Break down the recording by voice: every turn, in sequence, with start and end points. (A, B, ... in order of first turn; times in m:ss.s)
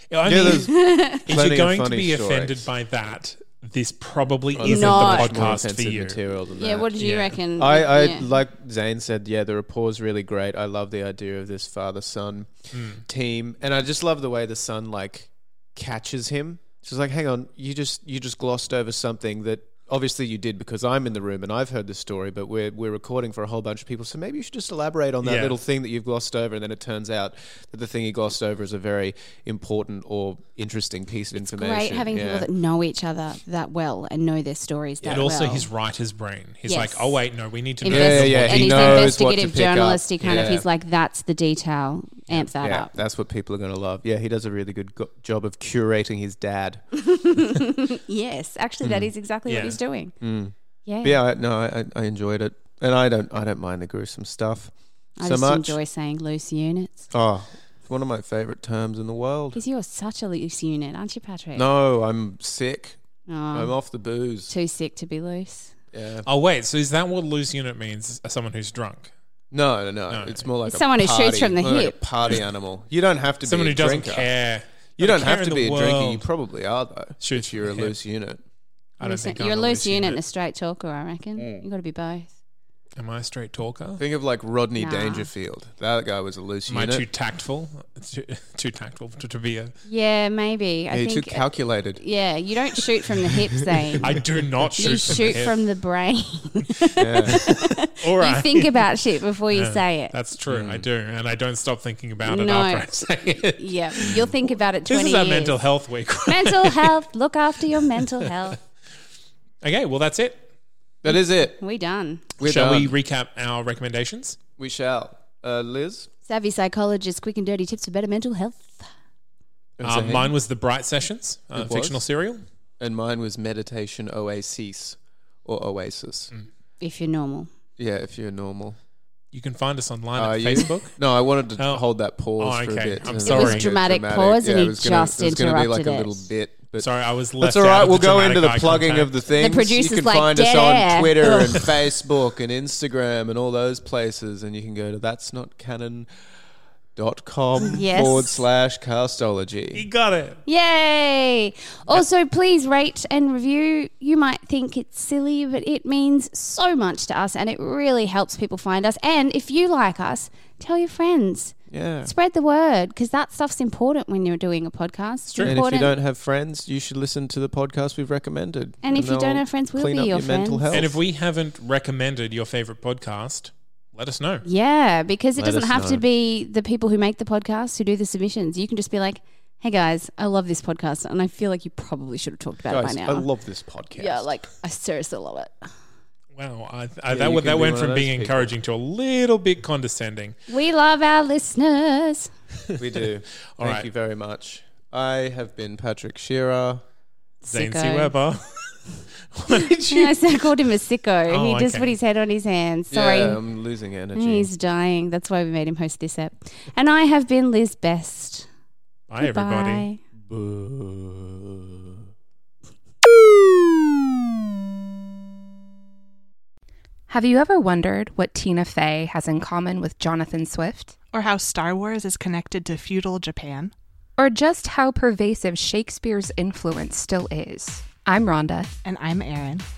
0:00.1-0:06.2 A
0:00.2-0:00.7 B
0:00.7-0:01.2 C
0:01.2-0:02.6 B
0:04.5-0:06.9 B
0:04.6-0:05.5 C
0:06.6-0:08.2 C
0:07.0-0:07.4 A
0:07.5-0:32.5 B
0:12.7-0:13.0 A
0:25.2-0:25.6 A
0:31.4-0:35.7 C
0:35.0-0:35.3 B
0:35.0-0:39.2 A
0:36.6-0:37.2 C
0:37.8-0:42.9 C
0:37.8-0:40.6 B
0:42.6-0:46.8 B
0:47.0-0:50.1 C
0:48.8-0:49.1 B
0:49.5-0:49.8 A
0:50.2-0:55.8 B
0:50.8-0:51.2 C
0:55.2-0:57.1 C
0:57.1-0:59.6 B
0:59.5-1:01.6 C
1:01.5-1:03.0 B
1:03.3-1:03.7 C
1:03.5-1:04.5 B
1:04.5-1:05.7 C
1:05.9-1:06.3 B
1:06.2-1:09.1 A
1:09.5-1:14.3 B
1:10.1-1:10.5 A
1:10.6-1:12.0 C
1:13.4-1:16.3 A
1:15.0-1:18.4 B
1:17.2-1:18.0 A
1:19.0-1:20.2 A
1:19.0-1:22.3 C
1:23.0-1:24.0 A
1:24.0-1:27.0 B
1:24.8-1:25.3 C
1:26.7-1:29.7 A
1:29.8-1:34.1 C
1:30.9-1:32.0 B
1:34.0-1:35.3 B
1:34.0-1:35.6 A
1:34.8-1:40.1 C
1:37.0-1:37.4 B
1:37.8-1:38.8 A
1:39.5-1:44.3 A
1:40.5-1:40.9 B
1:42.2-1:45.6 C
1:44.9-1:47.0 A
1:46.2-1:48.6 C
1:48.0-1:48.5 A
1:49.6-1:50.5 A
1:51.0-1:51.6 B
1:51.1-1:52.2 C
1:52.4-1:52.9 B
1:52.4-1:54.4 A
1:54.6-1:56.1 B
1:56.3-1:58.9 C
1:59.8-2:00.3 B
1:59.8-2:02.4 A
2:01.5-2:02.0 B
2:02.8-2:06.3 B
2:06.8-2:07.5 C
2:07.8-2:08.8 B
2:09.3-2:11.0 A
2:10.1-2:26.1 B
2:11.6-2:13.7 A
2:13.2-2:16.3 C
2:16.8-2:19.1 A
2:19.3-2:21.7 C
2:27.0-2:29.8 B
2:27.6-2:28.4 C
2:29.7-2:30.4 A
2:30.4-2:45.9 C
2:41.7-2:42.1 B
2:45.4-2:51.0 B
2:48.8-2:50.8 C
2:50.7-2:54.4 A
2:54.4-3:03.3 C
2:55.4-2:56.0 B
3:02.7-3:04.3 B
3:04.0-3:05.7 C
3:06.3-3:10.4 A
3:07.1-3:08.5 B
3:10.5-3:12.3 C
3:12.8-3:16.8 B
3:13.6-3:13.9 A
3:17.4-3:18.1 C
3:17.5-3:20.2 A
3:19.5-3:23.4 C
3:21.3-3:21.9 A
3:22.9-3:24.5 B
3:24.1-3:28.5 C
3:29.1-3:29.9 A
3:29.2-3:30.0 C
3:30.3-3:32.0 B
3:37.1-3:41.0 D
3:41.1-3:43.7 E
3:44.2-3:48.8 D
3:48.8-3:49.7 E